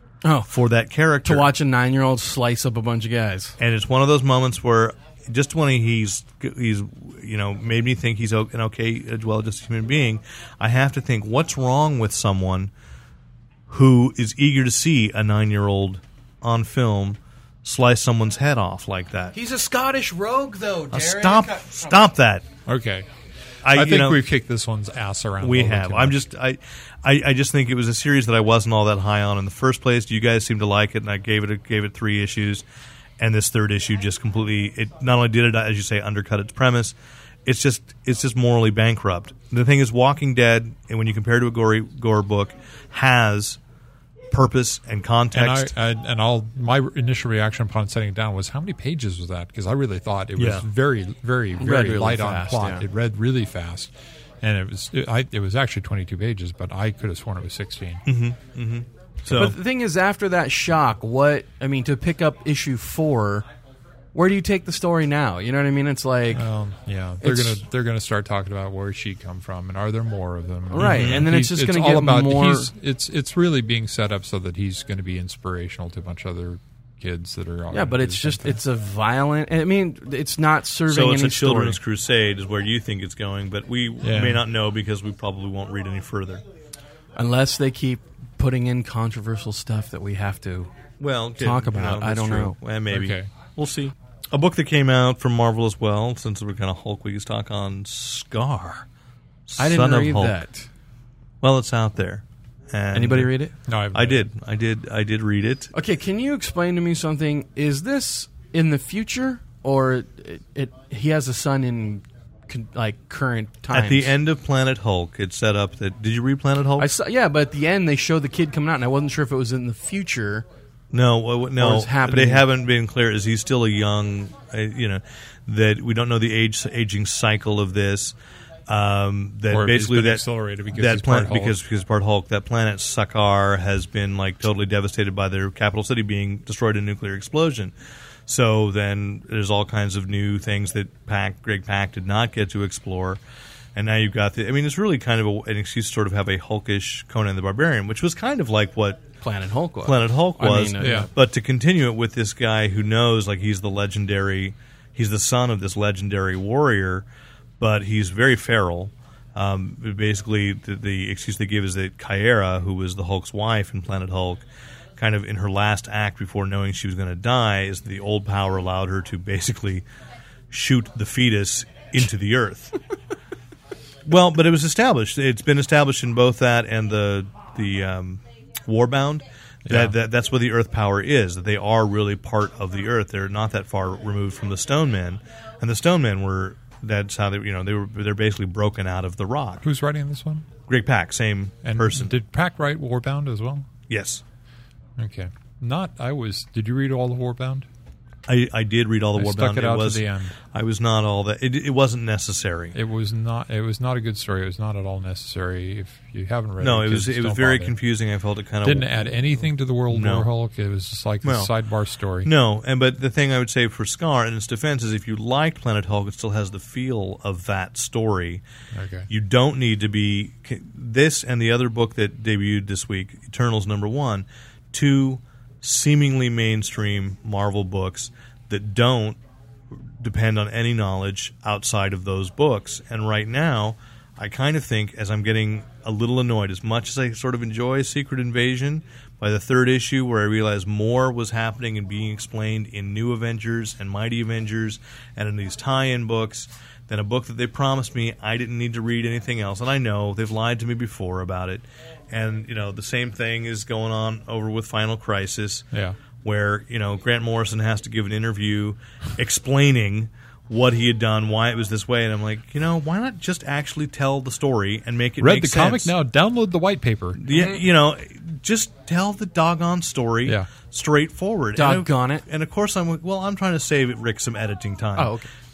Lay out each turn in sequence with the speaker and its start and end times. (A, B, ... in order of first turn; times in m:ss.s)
0:00.2-0:00.5 A
0:00.5-0:01.5 B
0:01.2-0:03.6 A
0:03.6-0:12.7 B
0:13.7-0:19.3 B
0:19.3-0:22.0 A
0:20.9-0:22.4 B
0:22.6-0:23.1 C
0:23.6-0:24.2 B
0:23.7-0:26.2 C
0:25.4-0:32.6 B
0:33.2-0:36.9 B
0:37.4-0:43.6 B
0:44.3-0:45.7 B
0:45.3-0:58.0 C
0:50.4-0:50.6 B
0:51.6-0:52.8 A
0:58.0-0:59.6 B
0:59.2-1:03.5 A
1:04.1-1:06.5 A
1:06.3-1:18.6 C
1:07.2-1:07.6 A
1:10.7-1:12.7 A
1:10.8-1:11.3 B
1:17.7-1:21.8 A
1:20.9-1:26.4 B
1:24.0-1:24.4 C
1:27.2-1:30.7 A
1:31.0-1:38.8 B
1:31.4-1:32.6 A
1:32.9-1:33.3 C
1:39.5-1:40.4 B
1:39.6-1:40.7 A
1:41.4-1:43.3 B
1:42.9-1:43.5 A
1:43.7-1:44.2 C
1:43.9-1:45.7 B
1:45.7-1:54.1 A
1:53.7-1:56.9 B
1:56.8-2:00.4 A
2:00.9-2:08.2 B
2:01.6-2:02.4 A
2:08.7-2:17.7 B
2:09.5-2:11.5 C
2:18.3-2:23.2 B
2:23.7-2:29.0 B
2:29.2-2:31.1 A
2:29.8-2:37.0 B
2:30.8-2:31.1 C
2:37.6-2:44.4 B
2:45.0-2:49.8 B
2:50.5-2:52.8 B
2:54.0-3:09.6 B
2:59.6-2:59.9 C
3:09.6-3:10.5 C
3:10.7-3:12.1 B
3:11.6-3:13.6 C
3:13.9-3:14.2 B
3:15.0-3:17.7 C
3:18.3-3:22.7 B
3:19.2-3:20.3 C
3:22.7-3:27.7 C
3:26.6-3:29.0 B
3:28.6-3:32.3 C
3:29.9-3:30.3 B
3:31.2-3:31.5 B
3:32.2-3:38.4 B
3:38.7-3:39.1 C
3:39.1-3:49.2 B
3:50.0-4:15.7 B
4:16.2-4:25.9 B
4:25.2-4:27.2 C
4:27.2-4:35.2 B
4:27.3-4:27.6 A
4:31.6-4:32.2 A
4:35.0-4:35.3 A